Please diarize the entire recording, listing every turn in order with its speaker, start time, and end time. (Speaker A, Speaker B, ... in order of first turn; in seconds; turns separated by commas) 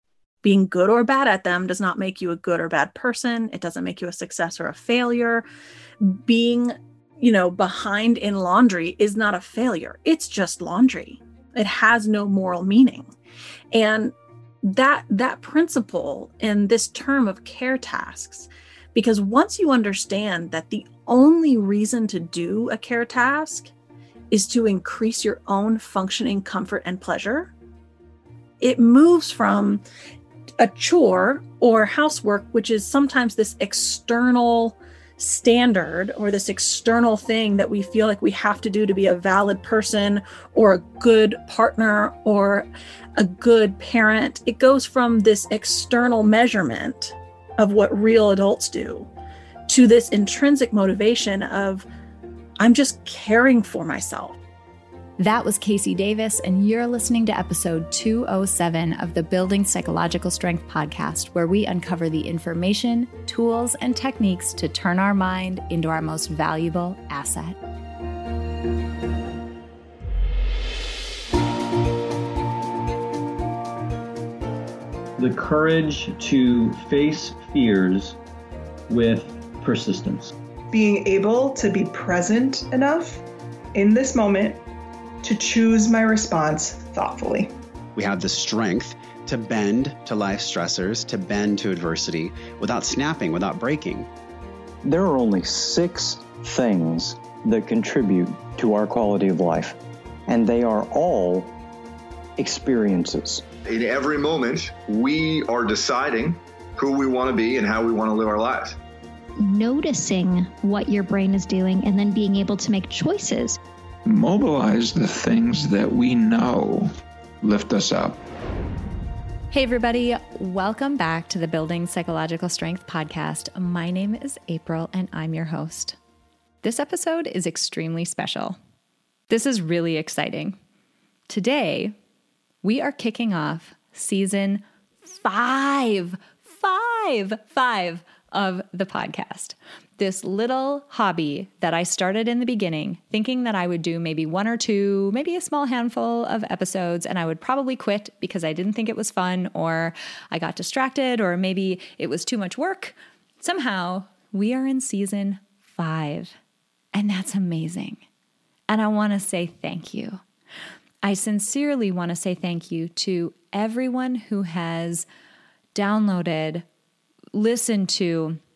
Speaker A: 0.4-5.5, Speaker A: 6.0-13.1, Speaker A: 13.7-23.7, Speaker A: 24.3-27.5, Speaker A: 28.6-29.8, Speaker A: 30.6-49.1, Speaker A: 49.7-51.9, Speaker A: 52.6-54.4, Speaker B: 55.2-67.6, Speaker C: 75.2-78.2, Speaker C: 78.9-80.3, Speaker D: 80.7-84.6, Speaker D: 85.2-87.5, Speaker E: 88.0-94.1, Speaker F: 94.8-101.5, Speaker F: 102.4-103.4, Speaker G: 103.7-108.8, Speaker H: 109.4-113.6, Speaker I: 114.1-116.9, Speaker I: 117.4-118.2, Speaker B: 119.5-126.0, Speaker B: 126.6-128.6, Speaker B: 129.3-130.6, Speaker B: 131.3-132.0, Speaker B: 132.6-156.4, Speaker B: 156.9-158.1, Speaker B: 158.7-160.2, Speaker B: 161.0-165.1, Speaker B: 165.8-166.7, Speaker B: 167.3-168.4